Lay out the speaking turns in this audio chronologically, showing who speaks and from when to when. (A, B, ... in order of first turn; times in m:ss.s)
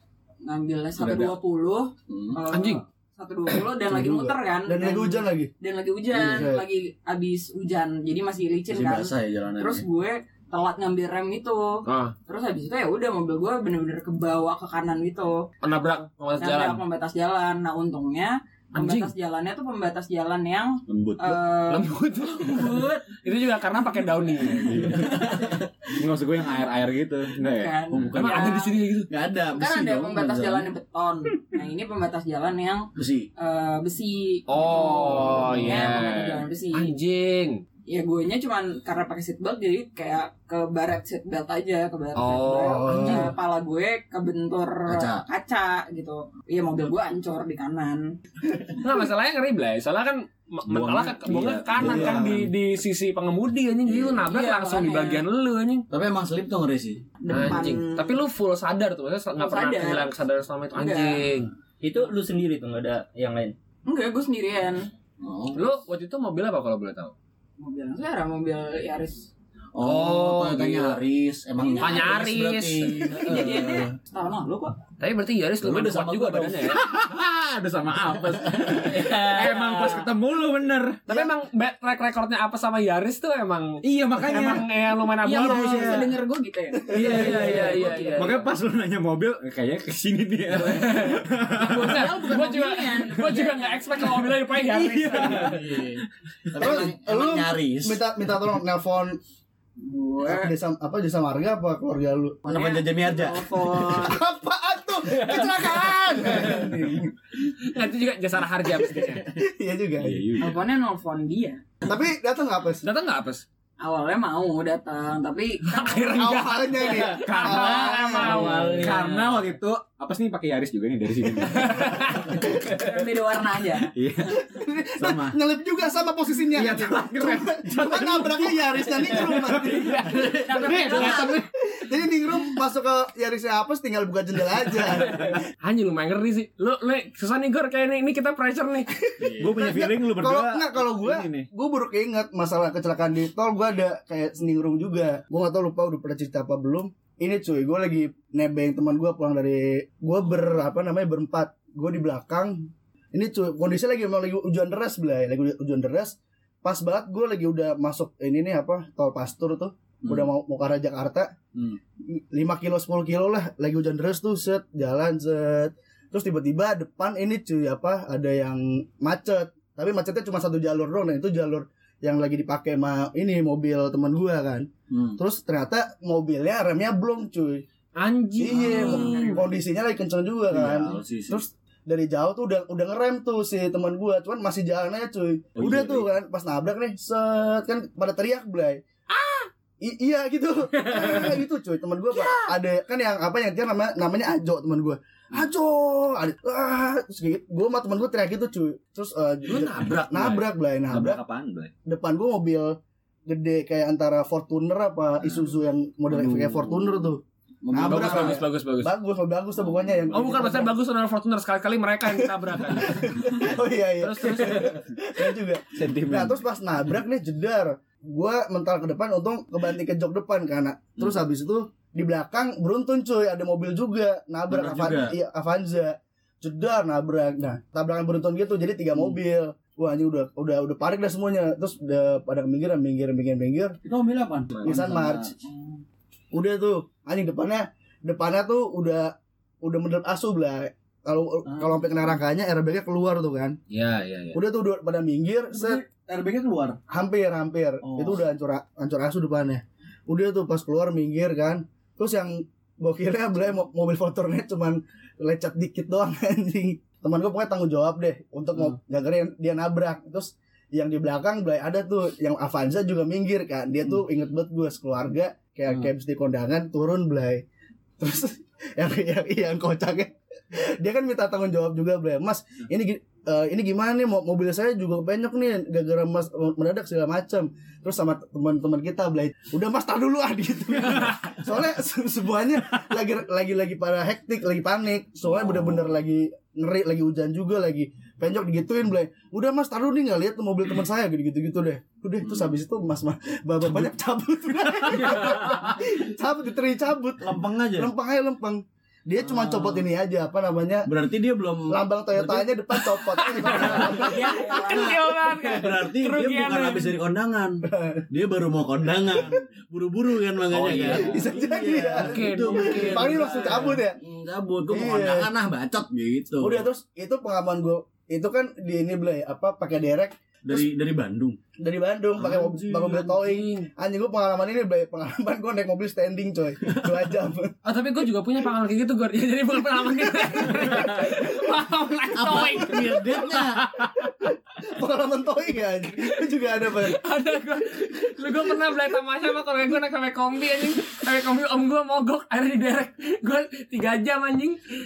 0:00.4-0:15.5 A
0:01.0-0:01.3 B
0:02.1-0:02.4 C
0:02.5-0:02.8 D
0:03.8-0:05.5 E
0:06.1-0:06.5 C
0:06.1-0:06.6 E
0:08.7-0:09.8 C
0:11.8-0:12.1 D
0:15.6-0:16.8 D
0:16.4-0:21.9 A
0:18.7-0:19.1 D
0:20.9-0:21.4 B
0:21.7-0:25.0 D
0:22.4-0:23.0 A
0:24.6-0:28.2 B
0:25.1-0:25.5 C
0:27.4-0:28.8 A
0:27.9-0:28.4 C
0:28.1-0:29.1 D
0:29.1-0:30.7 C
0:29.5-0:36.9 A
0:33.0-0:33.3 C
0:34.5-0:37.6 D
0:37.9-0:48.1 A
0:42.2-0:43.2 D
0:42.8-0:43.3 E
0:44.9-0:45.2 C
0:48.8-0:55.9 D
0:50.7-0:52.3 B
0:51.8-0:52.4 C
0:51.9-0:52.3 E
0:53.9-0:54.2 C
0:54.2-0:55.2 A
0:55.9-0:57.0 C
0:57.2-0:58.2 A
0:57.3-1:01.5 D
0:59.4-1:00.1 A
1:00.7-1:01.2 A
1:01.8-1:03.6 F
1:03.9-1:04.9 A
1:05.2-1:05.6 C
1:05.5-1:07.1 D
1:07.6-1:09.3 A
1:09.7-1:13.9 C
1:09.8-1:11.0 D
1:11.6-1:12.3 A
1:11.8-1:13.4 D
1:13.0-1:14.8 A
1:15.0-1:16.8 D
1:15.6-1:16.8 C
1:16.7-1:21.0 B
1:19.1-1:19.8 A
1:19.3-1:19.7 D
1:21.1-1:26.0 D
1:23.8-1:24.6 B
1:25.2-1:28.4 A
1:25.3-1:26.1 B
1:26.9-1:32.1 B
1:26.9-1:28.5 D
1:30.6-1:35.6 D
1:30.7-1:31.0 A
1:31.5-1:34.2 A
1:34.7-1:36.0 B
1:35.3-1:35.7 A
1:35.6-1:36.0 C
1:36.5-1:38.0 C
1:36.6-1:39.2 E
1:39.8-1:40.5 A
1:40.2-1:42.6 E
1:42.5-1:43.9 C
1:42.5-1:44.2 A
1:43.9-1:47.1 E
1:45.2-1:46.7 C
1:47.6-1:49.3 D
1:49.3-1:50.3 E
1:50.0-1:50.6 B
1:50.4-1:51.6 A
1:51.8-1:52.8 E
1:52.8-1:53.4 D
1:53.8-1:56.3 A
1:55.7-1:59.0 D
1:56.2-1:58.7 E
1:57.2-1:58.0 B
1:58.1-1:59.4 F
1:58.7-2:02.2 B
2:01.5-2:02.4 D
2:02.5-2:03.9 A
2:04.0-2:04.4 B
2:04.4-2:15.4 E
2:05.0-2:05.4 B
2:06.5-2:11.4 B
2:10.2-2:11.4 A
2:15.6-2:18.9 D
2:19.0-2:41.3 E
2:19.2-2:21.5 B
2:40.0-2:40.3 C
2:42.1-2:57.6 E
2:54.9-2:55.2 C
2:58.0-2:59.4 D
2:58.4-3:08.8 E
2:58.5-2:59.5 A
3:00.5-3:01.4 C
3:05.6-3:06.1 B
3:09.1-3:09.5 D
3:09.8-3:21.2 E
3:10.8-3:11.4 D
3:12.2-3:12.5 D
3:19.5-3:21.7 B
3:21.8-3:27.2 E
3:26.1-3:28.4 C
3:27.7-3:30.7 E
3:27.8-3:28.9 D
3:30.1-3:34.8 D
3:32.3-3:53.8 E
3:35.7-3:36.4 B
3:44.5-3:45.2 B
3:53.8-3:55.3 C
3:54.6-3:55.3 E
3:56.3-4:03.6 E
4:01.5-4:02.1 C
4:03.7-4:04.4 D
4:04.3-4:05.8 E
4:05.6-4:06.8 C
4:06.9-4:27.4 E
4:07.8-4:08.2 C
4:28.0-5:00.9 E
4:45.3-4:46.0 C
4:57.2-4:57.9 C
4:59.2-4:59.9 C
5:00.9-5:02.5 C
5:01.7-5:04.4 E
5:03.0-5:06.9 D
5:03.4-5:16.7 C
5:03.8-5:05.1 A
5:07.7-5:08.0 E
5:10.5-5:11.2 B
5:10.6-5:10.9 D
5:10.9-5:14.0 E
5:12.0-5:13.7 D
5:14.7-5:15.3 E
5:16.4-5:20.7 E
5:20.4-5:21.4 C
5:21.6-5:27.6 E
5:22.2-5:23.0 C
5:22.6-5:23.7 D
5:27.6-5:33.8 D
5:32.1-5:33.7 C
5:34.0-5:37.0 E
5:36.8-5:44.6 D